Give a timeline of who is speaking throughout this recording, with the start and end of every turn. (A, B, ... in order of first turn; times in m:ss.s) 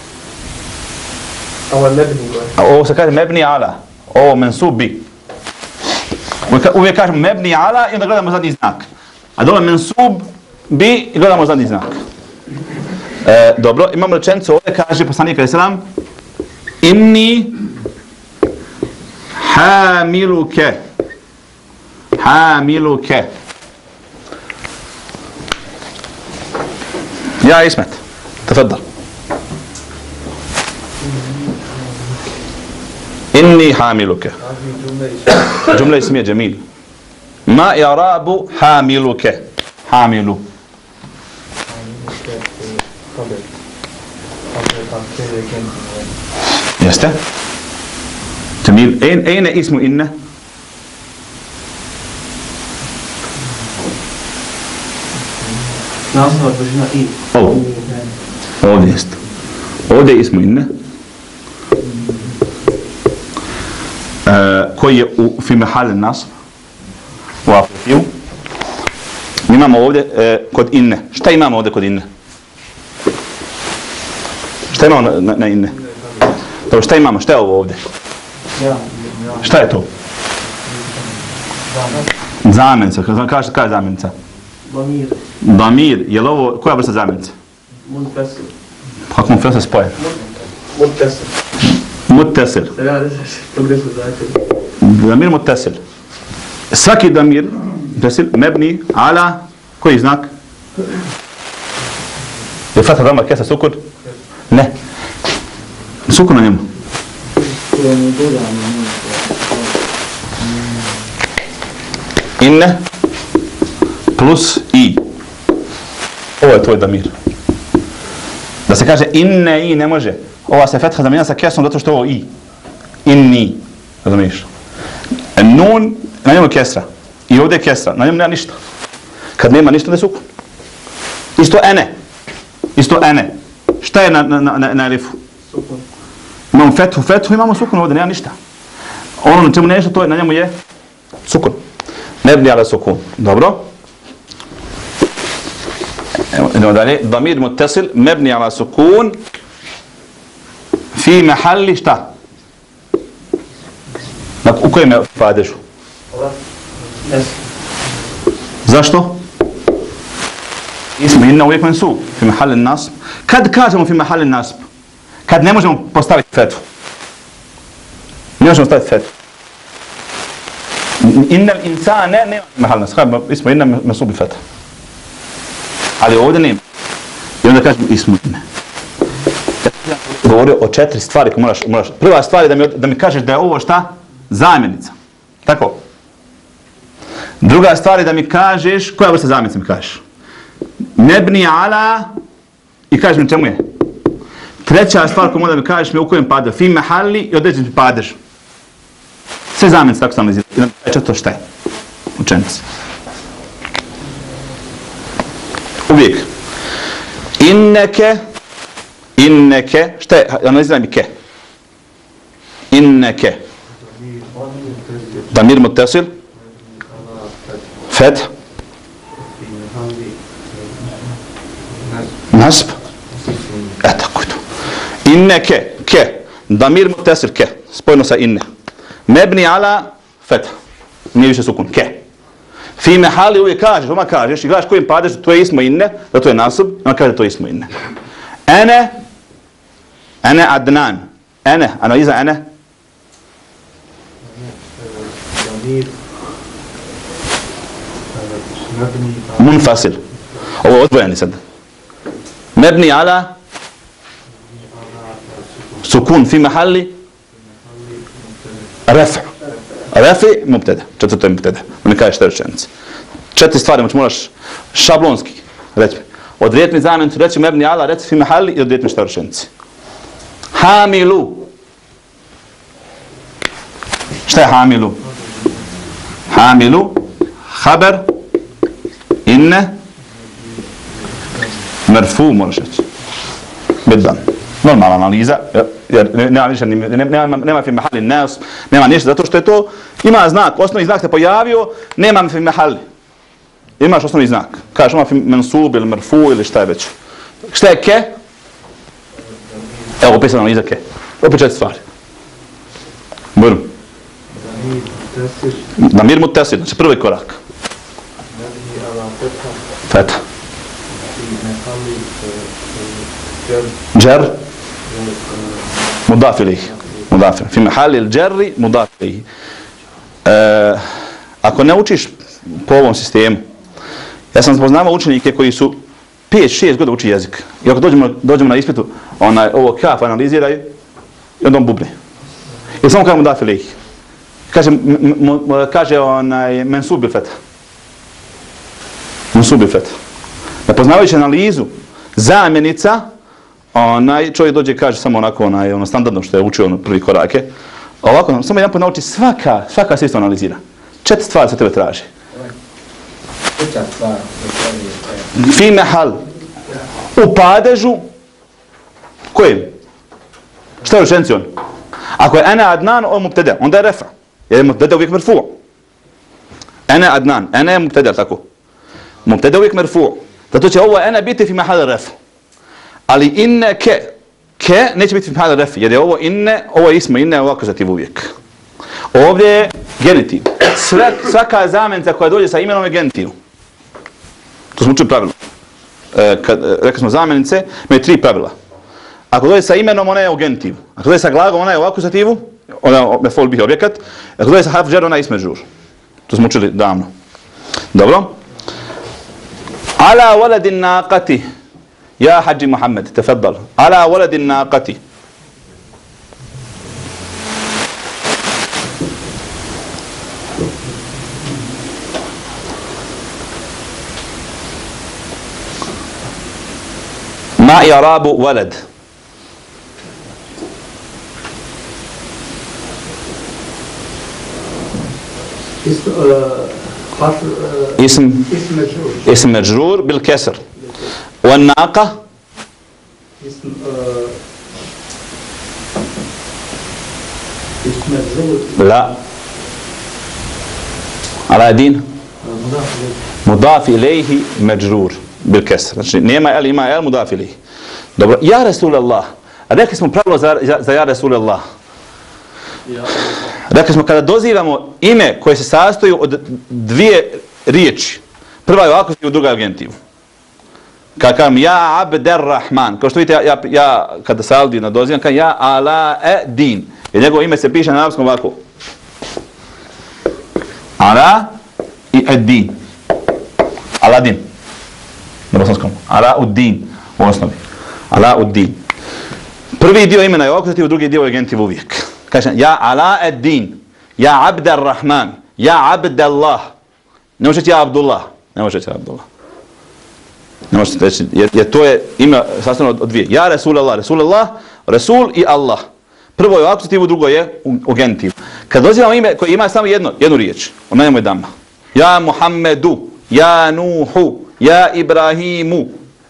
0:01.7-0:02.5 A
0:02.6-0:05.0 B
0:06.5-0:12.0 B
0:13.2-0:15.8 B
0:16.8-0:17.6 B
0:19.4-0:20.8 B
0:22.2-0:23.3 B
0:27.4-0:28.8 B
0:33.3-0:34.4 B
0:34.5-0:35.4 A
0:35.6-0:36.6 B
0:37.5-0:40.4 B
0:41.7-0:43.4 C
0:44.5-0:46.1 C
0:46.8-0:47.2 B
0:48.6-0:50.1 B
0:56.1-0:57.2 A
0:57.3-0:57.6 B
0:57.7-0:58.1 C
0:58.6-0:59.2 B
0:59.9-1:00.7 B
1:04.2-1:06.3 B
1:07.4-1:08.1 B
1:09.5-1:12.0 B
1:14.7-1:15.8 B
1:16.7-1:17.8 B
1:18.6-1:19.4 C
1:19.4-1:19.9 B
1:20.7-1:22.0 C
1:22.4-1:24.1 B
1:24.7-1:25.2 A
1:25.4-1:27.3 B
1:27.8-1:28.5 A
1:29.1-1:30.0 B
1:30.7-1:31.4 A
1:32.1-1:32.7 B
1:32.8-1:34.5 A
1:34.8-1:35.8 B
1:36.7-1:40.3 B
1:42.7-1:43.8 B
1:46.1-1:46.7 B
1:47.4-1:49.4 C
1:52.4-1:52.8 B
1:54.2-1:55.0 B
1:56.4-1:57.1 B
1:58.7-2:02.3 B
2:03.0-2:04.5 B
2:05.4-2:08.6 B
2:09.4-2:10.2 B
2:11.4-2:11.9 B
2:12.8-2:15.2 B
2:15.5-2:15.8 A
2:16.5-2:18.4 B
2:19.2-2:20.6 B
2:21.3-2:21.6 B
2:22.2-2:23.6 B
2:26.3-2:29.2 B
2:30.9-2:32.1 B
2:34.4-2:35.6 B
2:37.1-2:37.3 A
2:38.6-2:39.2 B
2:41.0-2:44.7 B
2:45.3-2:46.6 B
2:48.4-2:49.1 B
2:51.0-2:54.4 B
2:56.0-2:56.6 B
2:57.4-2:58.4 B
2:59.6-3:04.9 B
3:05.4-3:05.8 B
3:07.4-3:10.0 B
3:11.0-3:12.1 B
3:12.9-3:13.6 B
3:14.6-3:18.2 B
3:19.5-3:21.4 B
3:22.2-3:22.6 B
3:25.9-3:26.3 B
3:27.4-3:28.2 B
3:29.2-3:31.1 B
3:32.7-3:33.4 B
3:34.0-3:35.3 C
3:35.3-3:36.1 B
3:36.6-3:37.6 C
3:37.9-3:38.3 B
3:39.2-3:40.9 C
3:42.3-3:42.8 B
3:43.3-3:43.7 C
3:43.8-3:44.4 B
3:45.0-3:48.4 B
3:49.1-3:50.6 B
3:51.1-3:52.0 B
3:52.8-3:57.7 B
3:58.5-3:59.0 B
4:00.2-4:02.4 B
4:04.2-4:06.0 C
4:08.1-4:09.4 C
4:09.4-4:10.0 B
4:10.6-4:11.4 B
4:12.6-4:13.3 B
4:14.5-4:15.8 C
4:15.8-4:16.9 B
4:17.6-4:18.7 C
4:18.9-4:19.3 B
4:19.9-4:22.7 B
4:23.4-4:29.5 B
4:30.5-4:31.5 B
4:34.3-4:35.0 B
4:36.3-4:38.1 B
4:39.3-4:39.8 B
4:41.9-4:42.8 B
4:43.8-4:52.8 B
4:53.8-4:56.9 B
4:57.5-4:58.1 B
4:59.5-4:59.9 C
5:00.0-5:01.8 B
5:03.4-5:03.7 B
5:04.3-5:05.7 C
5:05.8-5:07.4 B
5:08.3-5:09.6 C
5:09.9-5:10.2 B
5:11.0-5:13.7 C
5:13.9-5:14.4 B
5:14.9-5:15.7 C
5:16.1-5:19.3 B
5:20.2-5:20.8 B
5:21.4-5:23.4 B
5:24.3-5:30.7 B
5:31.4-5:32.0 B
5:32.8-5:33.7 B
5:34.5-5:37.4 B
5:39.3-5:40.0 B
5:40.7-5:43.0 B
5:43.7-5:47.5 B
5:48.0-5:52.1 B
5:53.6-5:55.1 C
5:55.4-5:56.2 B
5:57.2-5:58.1 B
5:59.3-5:59.7 B
6:00.8-6:01.5 B
6:02.2-6:05.6 B
6:06.9-6:08.4 B
6:09.2-6:12.2 B
6:13.1-6:18.3 B
6:19.1-6:23.3 B
6:24.8-6:25.3 B
6:26.1-6:28.5 B
6:29.3-6:35.6 B
6:36.3-6:37.1 B
6:37.9-6:38.4 B
6:40.0-6:41.4 B
6:42.2-6:45.0 B
6:57.6-6:58.8 B
7:05.8-7:09.2 C
7:08.0-7:08.5 B
7:09.2-7:10.6 B
7:11.4-7:12.2 B
7:13.4-7:14.4 C
7:17.8-7:18.8 C
7:18.8-7:19.2 B
7:21.5-7:22.1 B
7:22.4-7:23.2 C
7:23.4-7:27.6 B
7:28.2-7:31.6 B
7:33.7-7:40.0 B
7:41.2-7:48.6 B
7:51.0-7:51.5 B
7:52.1-7:52.7 B
7:54.0-7:54.4 B
7:55.5-7:57.6 B
7:58.1-7:58.8 B
7:59.8-8:06.7 B
8:07.4-8:09.2 B
8:10.7-8:15.8 B
8:16.4-8:25.9 B